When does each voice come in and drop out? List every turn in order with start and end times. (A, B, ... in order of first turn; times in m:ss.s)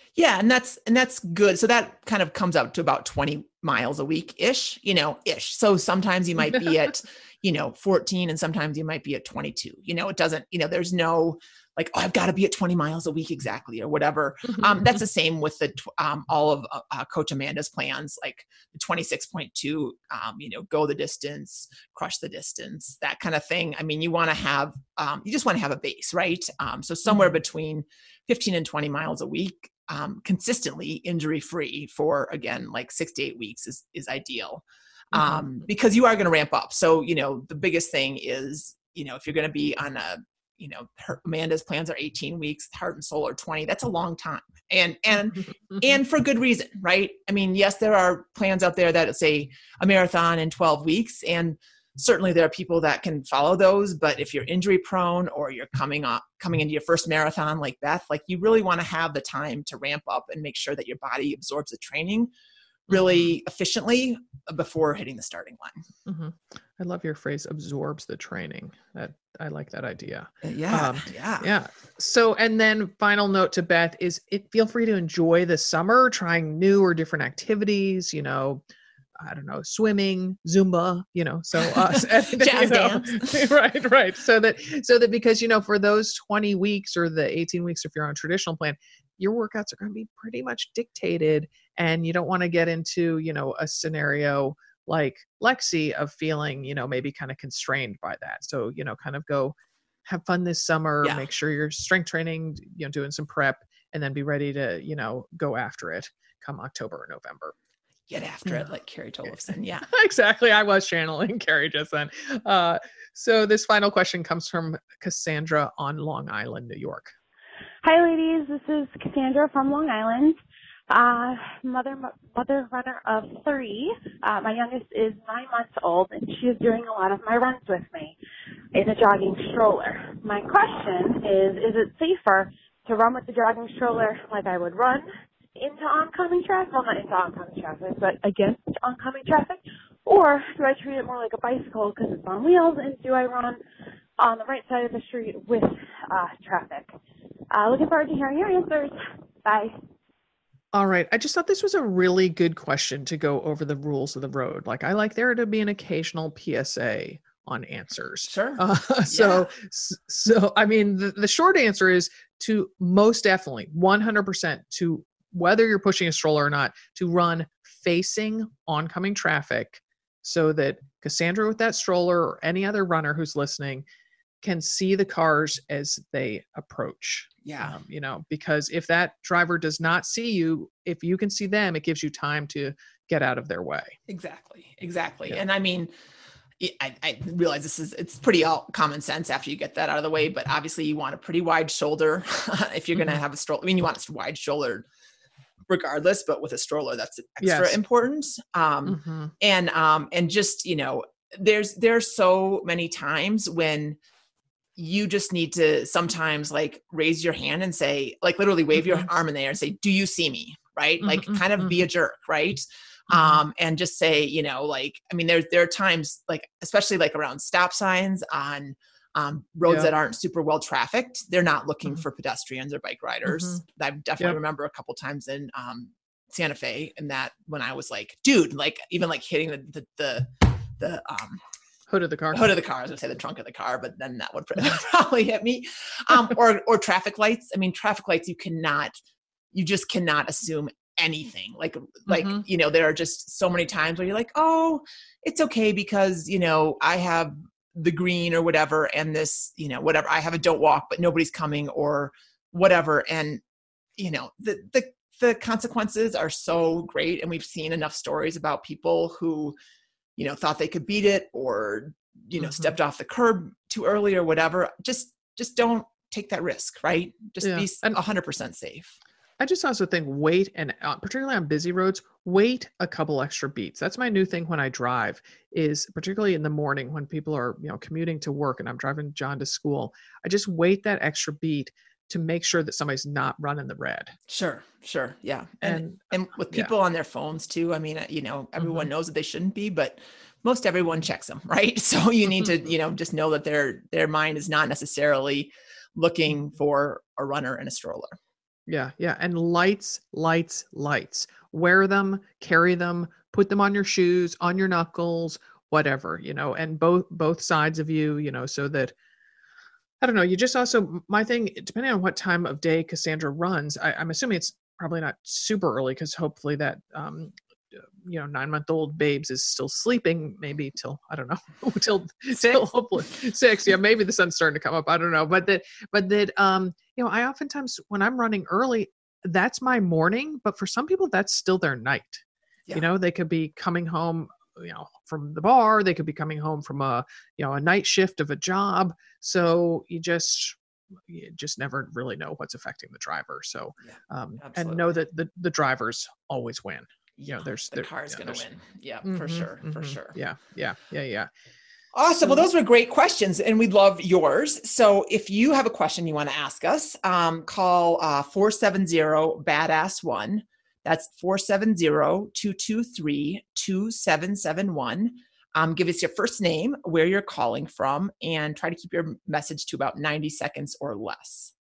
0:00.2-1:02.3 A
0:35.1-0:35.4 B
1:02.9-1:05.8 A
1:06.1-1:18.6 B
1:10.4-1:11.5 A
1:19.2-1:47.5 B
1:21.6-1:23.4 A
1:48.1-1:49.9 A
1:49.9-1:57.1 B
1:57.8-2:00.4 C
2:00.9-2:08.2 C
2:08.7-2:23.6 C
2:24.2-2:26.9 C
2:27.5-2:29.8 C
2:30.7-2:53.8 B
2:38.2-2:39.5 A
2:54.4-3:04.0 B
2:57.4-2:57.8 A
3:04.1-3:05.9 A
3:06.6-3:14.9 A
3:15.7-3:24.0 A
3:17.4-3:17.8 B
3:18.9-3:19.3 B
3:24.8-3:51.4 A
3:31.0-3:31.8 B
3:33.1-3:33.4 B
3:43.3-3:43.6 B
3:51.9-3:52.5 B
3:52.3-3:58.9 A
3:59.5-4:13.4 A
4:02.1-4:02.4 B
4:14.0-4:19.6 A
4:20.2-4:29.0 A
4:22.4-4:22.7 B
4:27.4-4:28.0 B
4:29.4-4:44.2 B
4:44.3-4:58.2 A
4:45.6-4:46.7 B
4:58.7-5:08.9 B
5:10.0-5:17.4 B
5:18.0-5:32.2 B
5:22.4-5:22.6 A
5:32.7-5:48.4 B
5:43.9-5:44.9 A
5:47.2-5:50.2 A
5:49.0-5:51.3 B
5:51.9-6:11.5 A